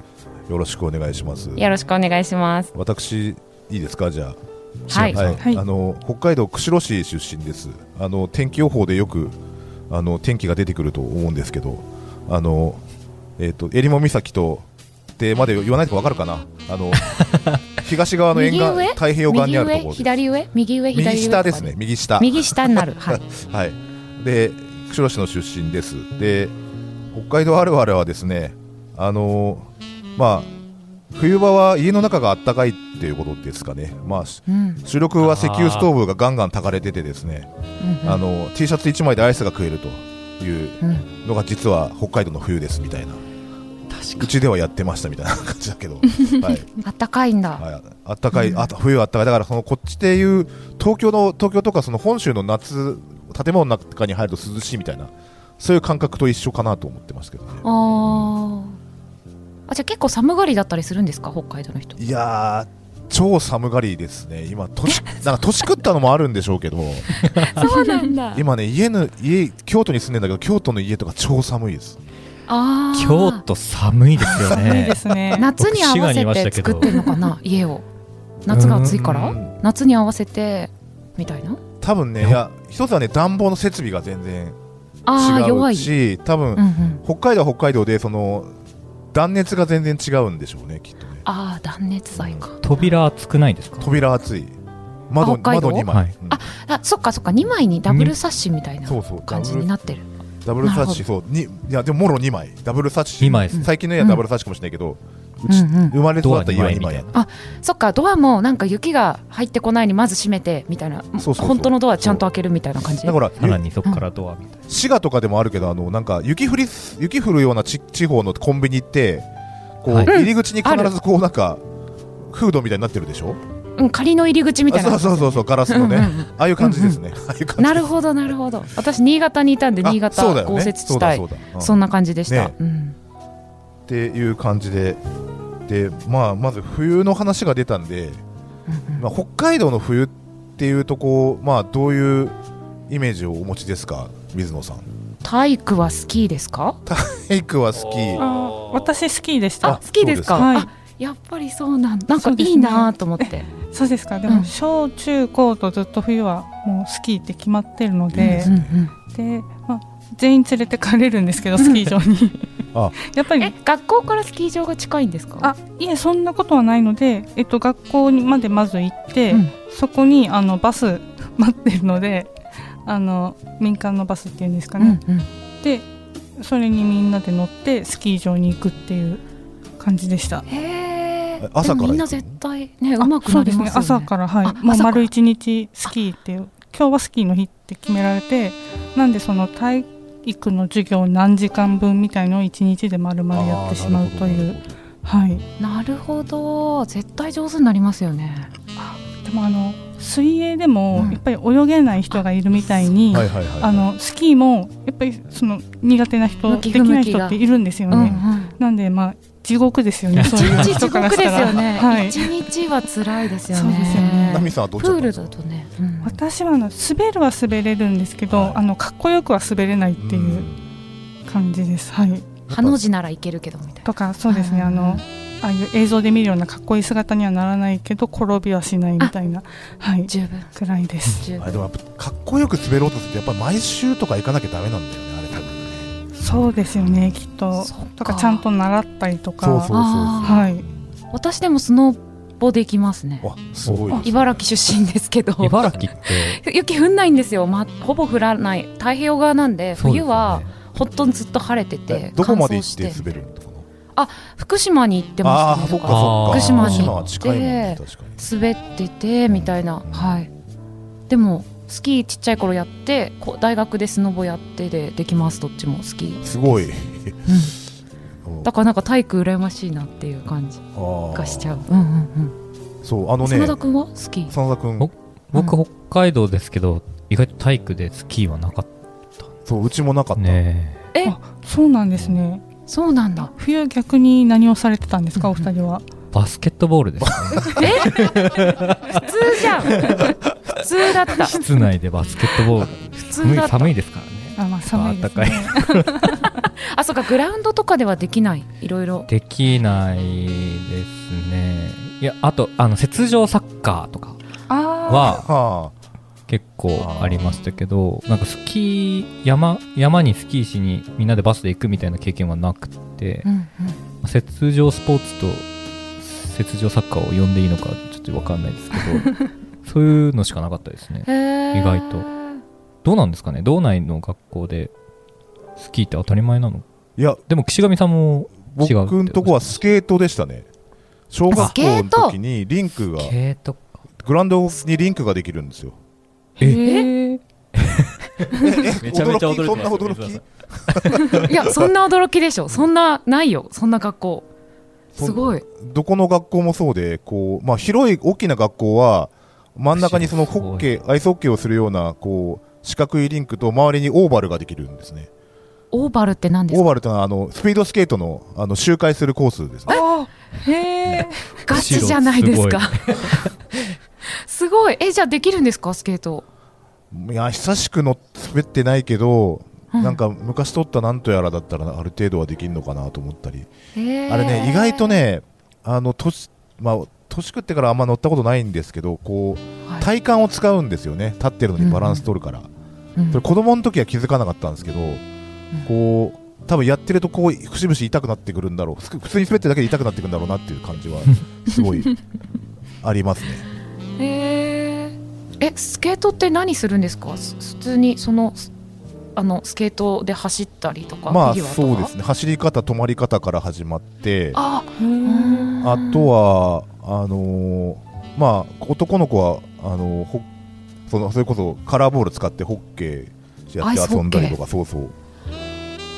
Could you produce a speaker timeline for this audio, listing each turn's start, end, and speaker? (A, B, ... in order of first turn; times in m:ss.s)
0:00.5-0:01.6 A
0:01.6-0:02.7 B
0:02.7-0:09.4 A
0:04.9-0:05.2 B
0:04.9-0:05.4 C
0:09.9-0:12.8 A
0:13.4-0:20.1 A
0:18.3-0:23.2 B
0:20.9-0:26.5 A
0:27.1-0:30.5 A
0:31.1-0:37.5 A
0:34.5-0:34.8 B
0:35.2-0:35.9 C
0:37.8-0:38.2 B
0:38.0-0:43.2 A
0:40.8-0:41.1 B
0:43.9-0:44.3 C
0:44.2-0:46.7 A
0:46.8-0:47.6 B
0:47.6-0:58.3 A
0:48.3-0:48.7 B
0:57.6-0:58.8 B
0:59.7-1:02.0 B
1:02.0-1:07.3 A
1:07.3-1:07.6 C
1:07.4-1:08.4 B
1:08.3-1:12.0 A
1:12.5-1:13.4 B
1:12.9-1:15.0 C
1:14.4-1:15.5 D
1:15.4-1:17.8 B
1:15.6-1:17.2 C
1:18.4-1:21.6 B
1:18.5-1:19.0 C
1:18.8-1:19.5 A
1:21.8-1:24.6 A
1:25.0-1:25.9 B
1:25.1-1:28.5 A
1:26.5-1:27.0 B
1:29.1-1:31.2 A
1:31.2-1:32.9 B
1:32.2-1:32.5 A
1:32.6-1:33.9 C
1:33.8-1:34.5 A
1:35.1-1:36.4 A
1:35.2-1:40.0 B
1:38.8-1:47.1 A
1:40.6-1:41.0 B
1:43.2-1:43.6 C
1:43.5-1:44.2 B
1:45.5-1:46.0 B
1:46.2-1:47.1 C
1:47.1-1:53.2 B
1:51.2-1:52.2 A
1:53.0-1:53.6 A
1:53.4-1:54.6 C
1:54.7-1:59.3 A
1:59.8-2:01.6 A
2:00.1-2:00.9 B
2:02.2-2:03.4 A
2:03.8-2:07.0 B
2:04.7-2:07.9 A
2:07.6-2:13.0 B
2:09.8-2:12.5 A
2:13.9-2:15.0 A
2:15.6-2:18.2 A
2:18.7-2:19.0 B
2:19.0-2:22.4 A
2:22.9-2:24.8 A
2:25.2-2:26.8 B
2:26.8-2:28.2 A
2:27.8-2:28.9 C
2:28.2-2:29.8 D
2:29.6-2:33.5 B
2:29.6-2:30.5 A
2:30.3-2:30.7 D
2:32.2-2:38.5 D
2:38.1-2:38.8 A
2:38.2-2:38.9 B
2:39.1-2:42.4 D
2:41.6-2:41.9 B
2:43.0-2:43.5 D
2:43.4-2:45.5 B
2:45.4-2:52.3 D
2:52.8-2:55.0 D
2:54.8-2:55.3 B
2:56.4-2:59.2 D
2:59.8-3:00.4 D
3:00.5-3:05.1 B
3:01.4-3:02.4 A
3:03.0-3:15.4 D
3:13.3-3:14.8 A
3:15.6-3:18.5 B
3:18.8-3:32.4 D
3:20.9-3:21.2 A
3:23.1-3:23.9 A
3:26.4-3:28.5 B
3:27.9-3:28.2 A
3:30.1-3:30.8 C
3:30.3-3:36.2 B
3:30.5-3:30.8 A
3:33.5-3:34.5 D
3:34.0-3:35.3 A
3:36.0-3:40.5 D
3:38.3-3:38.6 A
3:40.0-3:40.6 A
3:41.2-3:42.3 D
3:42.5-3:45.0 B
3:42.5-3:42.8 A
3:43.8-3:51.2 D
3:50.1-3:50.5 B
3:51.0-3:51.6 B
3:51.4-3:57.2 A
3:56.2-4:00.6 D
3:57.6-3:58.4 B
3:59.4-4:00.8 A
3:59.7-4:00.5 B
4:01.1-4:03.3 B
4:03.2-4:04.4 A
4:03.7-4:04.0 C
4:04.0-4:13.1 B
4:05.4-4:06.4 C
4:09.8-4:10.5 C
4:11.9-4:13.7 A
4:13.9-4:20.3 B
4:15.2-4:18.2 A
4:15.9-4:17.0 C
4:19.3-4:20.2 A
4:21.1-4:26.6 B
4:26.2-4:27.2 A
4:27.2-4:27.6 B
4:28.4-4:32.3 B
4:30.7-4:31.6 A
4:32.8-4:33.6 A
4:33.2-4:34.3 B
4:34.3-4:34.9 A
4:34.8-4:39.3 C
4:39.4-4:40.4 A
4:40.2-4:40.8 C
4:41.0-4:42.4 D
4:42.7-4:43.3 B
4:43.3-4:45.8 D
4:46.1-4:50.2 C
4:47.0-4:48.0 A
4:47.5-4:48.1 B
4:48.9-4:49.9 B
4:50.5-4:51.4 B
4:51.1-4:56.3 C
4:52.9-4:53.7 B
4:54.4-4:56.2 D
4:56.6-4:59.1 B
4:59.1-5:04.2 C
5:04.5-5:05.2 D
5:04.9-5:05.2 C
5:04.9-5:05.7 A
5:06.3-5:13.3 C
5:06.8-5:07.4 A
5:13.2-5:13.8 B
5:14.0-5:15.5 C
5:16.0-5:22.1 C
5:21.0-5:22.4 B
5:22.8-5:24.7 C
5:25.6-5:26.6 C
5:27.0-5:27.2 A
5:27.3-5:29.6 C
5:28.5-5:30.5 A
5:31.1-5:33.1 A
5:31.3-5:32.2 B
5:33.0-5:33.7 C
5:34.0-5:35.8 A
5:36.4-5:37.2 D
5:36.4-5:36.9 B
5:37.5-5:41.2 C
5:38.3-5:41.7 A
5:41.0-5:44.3 B
5:44.9-5:55.1 A
5:45.0-5:45.4 B
5:49.8-5:50.7 C
5:55.7-5:56.7 B
5:56.5-5:59.8 A
5:59.7-6:01.4 D
6:01.4-6:03.3 B
6:01.5-6:03.6 C
6:04.0-6:06.2 B
6:06.9-6:13.5 A
6:09.7-6:10.0 B
6:13.7-6:15.0 B
6:14.1-6:22.5 A
6:21.6-6:22.0 B
6:23.0-6:23.2 B
6:23.1-6:25.0 A
6:25.6-6:31.9 A
6:32.8-6:33.4 A
6:34.0-6:38.5 B
6:39.2-6:41.9 B
6:41.1-6:44.4 A
6:44.3-6:46.1 B
6:44.8-6:45.5 D
6:45.6-6:50.2 A
6:50.9-6:54.9 A
6:53.6-6:54.4 B